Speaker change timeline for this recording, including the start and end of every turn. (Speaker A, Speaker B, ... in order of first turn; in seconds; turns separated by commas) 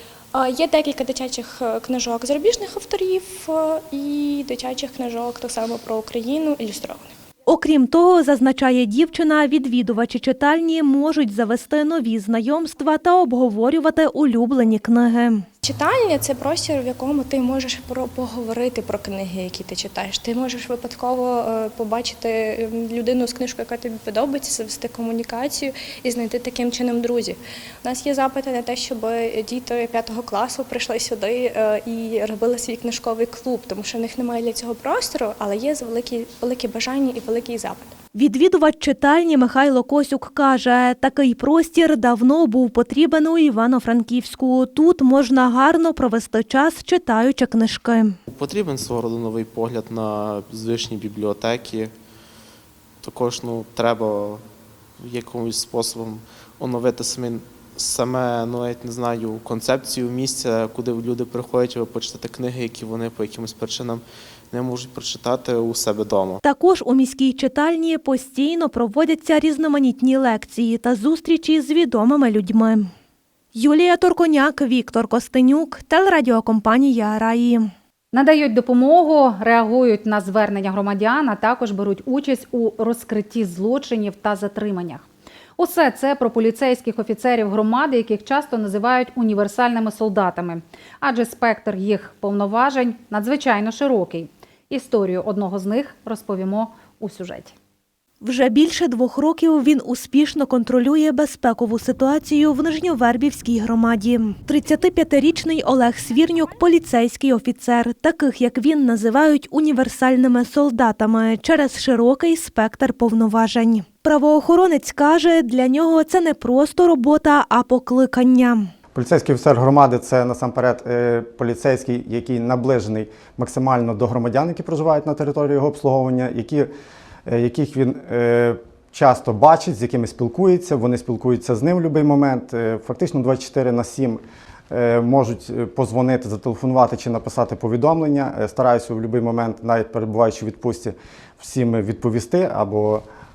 Speaker A: 0.3-7.1, Speaker B: 7.5-15.4, Speaker A: 15.6-37.9, Speaker B: 38.1-48.2, Speaker C: 48.3-51.9, Speaker C: 53.0-54.4, Speaker C: 55.0-66.4, Speaker B: 66.4-72.9, Speaker B: 73.5-77.7, Speaker D: 78.1-85.1, Speaker D: 85.6-97.5, Speaker B: 98.2-118.7, Speaker E: 118.9-126.7, Speaker E: 127.3-143.1